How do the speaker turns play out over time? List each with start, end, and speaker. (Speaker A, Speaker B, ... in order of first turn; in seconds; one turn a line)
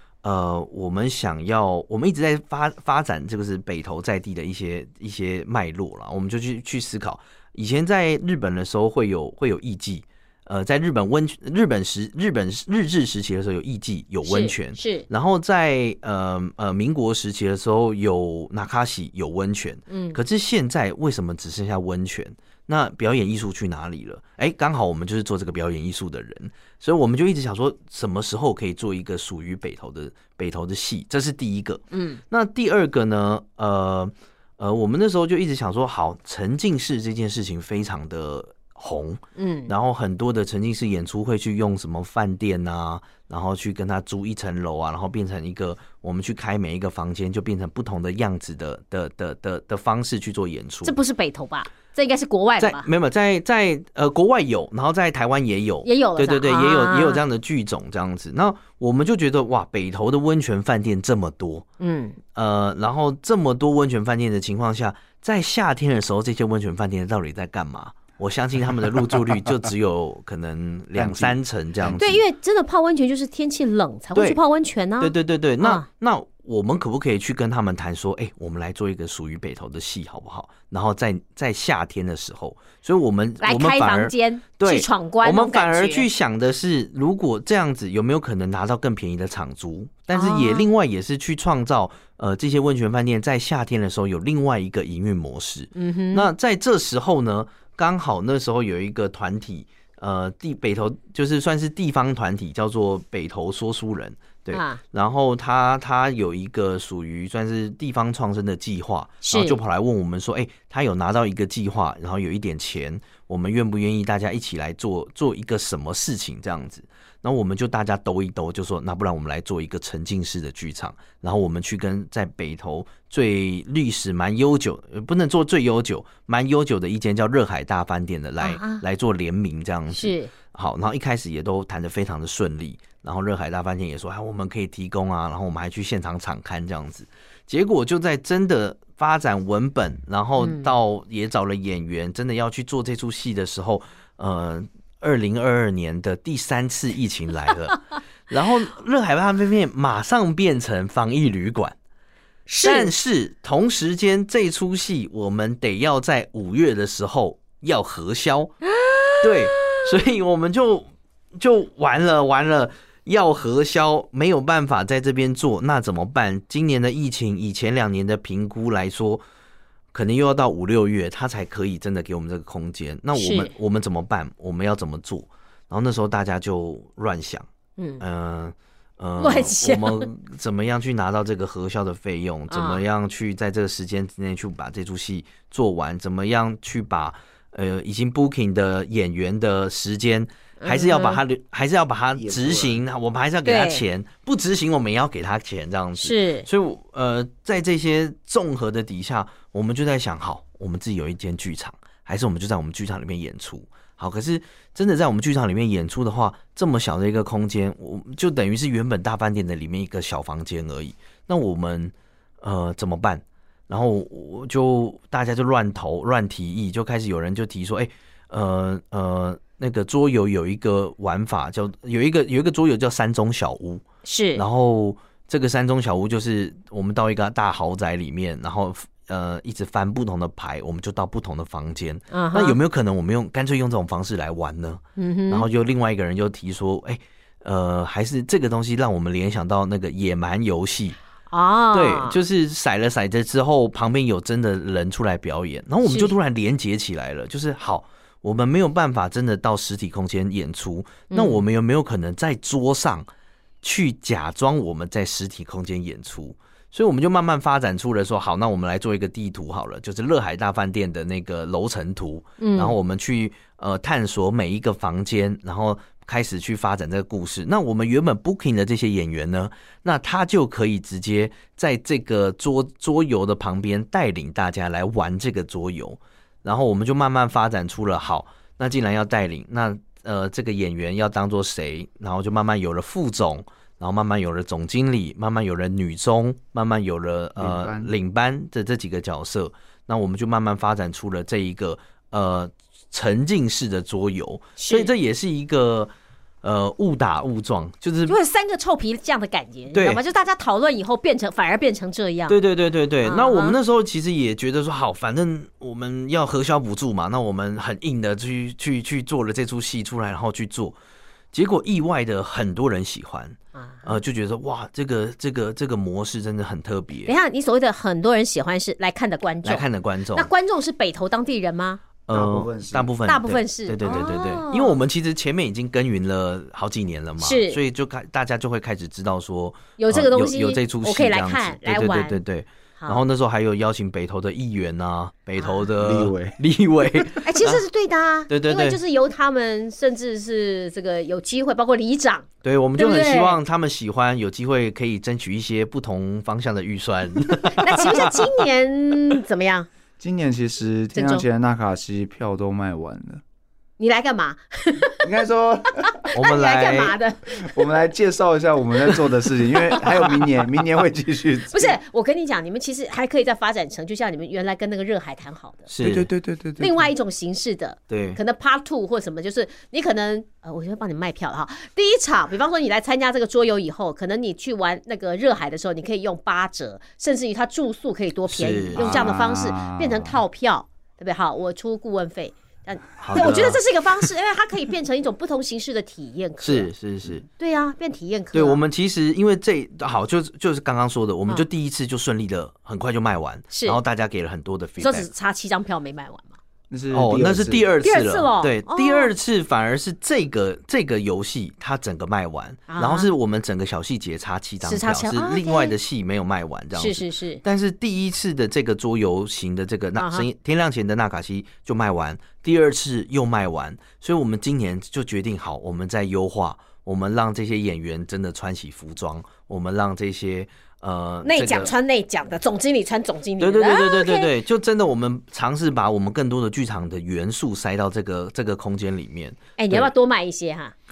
Speaker A: 0.2-51.0
Speaker B: 14.2-15.1
Speaker B: 19.9-20.2
Speaker B: 31.9-32.2
Speaker B: 39.4-39.7
Speaker B: 50.8-52.9
Speaker A: 52.6-61.6
Speaker B: 55.8-57.2
Speaker B: 61.8-62.2
Speaker A: 62.3-72.2
Speaker C: 70.9-72.0
Speaker B: 71.8-75.8
Speaker A: 74.1-74.4
Speaker A: 75.0-151.8
Speaker B: 83.4-86.1
Speaker B: 90.1-90.7
Speaker B: 95.7-96.3
Speaker B: 104.5-104.8
Speaker B: 109.2-109.6
Speaker B: 128.4-128.8
Speaker B: 129.9-130.3
Speaker B: 140.4-140.7
Speaker B: 152.5-152.9
Speaker A: 152.6-158.6
Speaker B: 158.8-159.1
Speaker A: 159.2-169.2
Speaker A: 169.9-177.4
Speaker B: 173.2-173.5
Speaker B: 177.8-178.0
Speaker A: 178.0-223.8
Speaker B: 179.2-180.1
Speaker B: 182.5-182.8
Speaker B: 190.6-191.2
Speaker C: 192.2-192.8
Speaker B: 193.4-193.8
Speaker B: 196.0-196.5
Speaker B: 224.0-224.4
Speaker A: 224.3-241.0
Speaker B: 232.1-232.6
Speaker B: 235.0-235.4
Speaker B: 241.3-242.2
Speaker A: 241.7-253.1
Speaker B: 245.8-246.1
Speaker B: 251.1-251.4
Speaker A: 253.6-298.2
Speaker B: 262.4-262.8
Speaker C: 287.4-287.9
Speaker B: 294.6-294.9
Speaker B: 298.1-302.4
Speaker A: 299.7-300.0
Speaker A: 302.3-310.8
Speaker B: 303.0-303.6
Speaker A: 311.3-317.1
Speaker B: 313.5-313.9
Speaker B: 317.1-321.8
Speaker A: 319.4-320.3
Speaker A: 322.1-337.6
Speaker C: 322.1-322.9
Speaker B: 323.1-324.8
Speaker B: 327.2-327.6
Speaker B: 329.8-332.2
Speaker B: 335.4-335.6
Speaker C: 335.8-336.4
Speaker B: 337.2-343.4
Speaker A: 338.3-338.8
Speaker A: 342.4-348.4
Speaker B: 347.5-349.7
Speaker C: 350.0-353.2
Speaker B: 350.9-351.2
Speaker B: 353.8-355.1
Speaker C: 355.0-356.1
Speaker B: 356.1-357.6
Speaker A: 356.1-356.9
Speaker C: 357.4-361.8
Speaker B: 361.5-365.7
Speaker A: 365.7-366.1
Speaker C: 365.8-366.8
Speaker B: 366.6-386.7
Speaker A: 367.9-368.2
Speaker A: 378.3-379.1
Speaker C: 378.7-380.2
Speaker A: 383.0-383.6
Speaker A: 386.4-387.2
Speaker B: 387.4-388.6
Speaker A: 388.3-395.1
Speaker B: 393.5-393.8
Speaker B: 394.8-396.3
Speaker C: 396.7-397.7
Speaker A: 396.9-421.7
Speaker B: 397.8-399.1
Speaker B: 402.7-403.1
Speaker B: 404.6-405.8
Speaker B: 406.7-407.4
Speaker B: 410.0-410.2
Speaker B: 421.2-424.3
Speaker A: 423.4-429.9
Speaker B: 429.6-430.7